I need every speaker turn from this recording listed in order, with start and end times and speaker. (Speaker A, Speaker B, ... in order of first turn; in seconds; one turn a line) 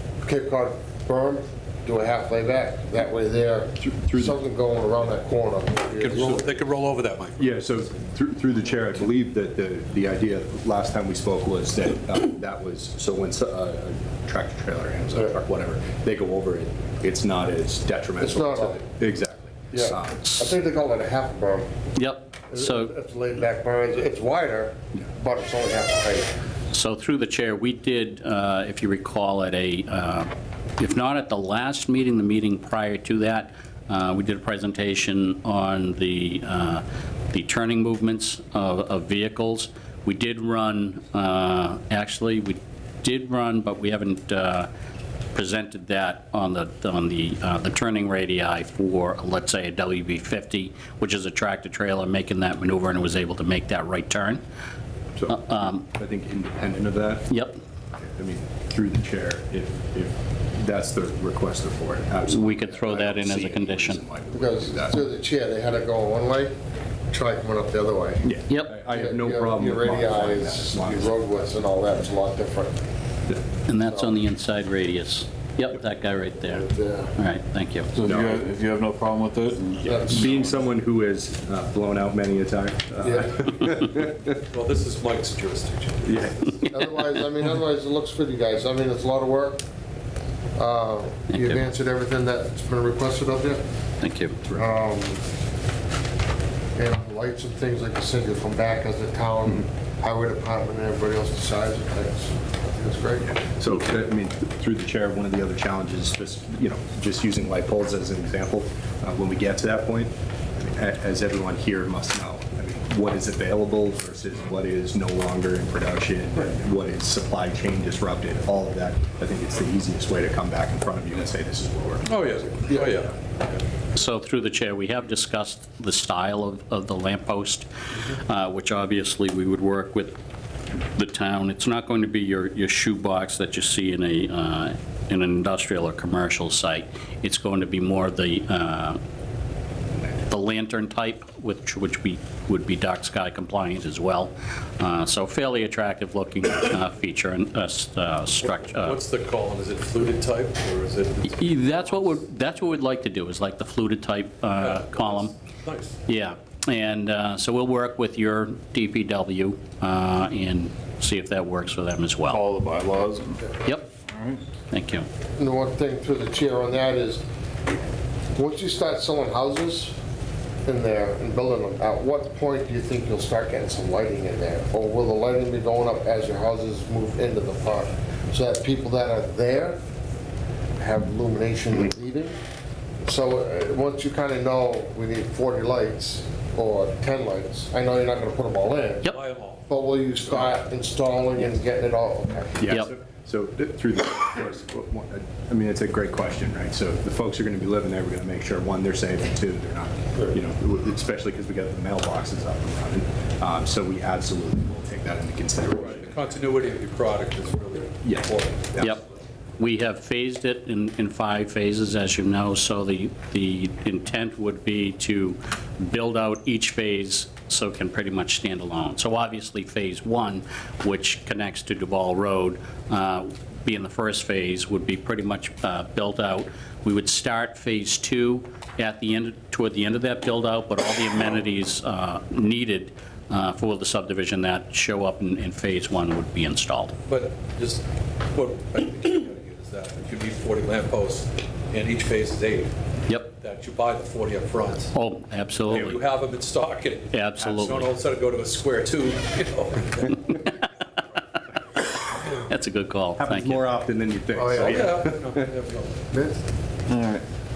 Speaker A: 0.2-6.5
Speaker B: 3.8-4.4
Speaker C: 5.9-7.7
Speaker B: 7.4-20.3
Speaker A: 18.2-18.8
Speaker A: 19.7-21.7
Speaker D: 21.9-22.9
Speaker A: 22.5-26.3
Speaker D: 26.7-44.7
Speaker D: 45.3-54.4
Speaker B: 55.1-57.3
Speaker D: 55.3-55.8
Speaker D: 57.3-57.6
Speaker B: 58.0-65.0
Speaker D: 62.3-64.0
Speaker A: 64.3-66.5
Speaker A: 67.1-72.8
Speaker B: 68.2-71.5
Speaker D: 68.5-68.7
Speaker D: 73.7-76.6
Speaker A: 73.8-74.1
Speaker A: 76.5-77.1
Speaker D: 77.2-77.9
Speaker E: 77.9-79.8
Speaker B: 78.0-78.4
Speaker A: 79.8-80.5
Speaker B: 79.8-84.3
Speaker A: 83.0-83.4
Speaker C: 84.5-86.6
Speaker B: 86.0-86.3
Speaker A: 86.7-89.6
Speaker A: 90.5-93.6
Speaker D: 91.3-91.6
Speaker D: 94.0-94.4
Speaker A: 94.5-95.2
Speaker A: 96.8-103.3
Speaker B: 103.2-122.4
Speaker C: 122.0-123.6
Speaker D: 123.9-130.1
Speaker D: 130.9-139.0
Speaker D: 140.3-149.0
Speaker C: 148.4-152.2
Speaker D: 151.3-155.3
Speaker C: 154.6-156.0
Speaker D: 156.1-162.4
Speaker E: 162.3-163.5
Speaker E: 164.1-164.4
Speaker D: 164.7-165.1
Speaker A: 165.4-167.2
Speaker A: 168.3-169.9
Speaker A: 170.7-179.8
Speaker A: 180.8-182.4
Speaker A: 183.0-189.1
Speaker C: 189.1-189.7
Speaker A: 189.7-192.6
Speaker C: 190.2-190.6
Speaker B: 192.6-206.1
Speaker C: 205.7-209.0
Speaker B: 208.0-209.0
Speaker D: 209.6-236.9
Speaker C: 237.1-242.7
Speaker C: 243.2-244.9
Speaker D: 244.9-246.0
Speaker C: 245.7-250.4
Speaker D: 247.1-247.9
Speaker D: 251.8-253.6
Speaker B: 253.2-255.2
Speaker A: 254.3-254.9
Speaker C: 254.5-256.1
Speaker A: 256.1-256.4
Speaker E: 256.9-257.2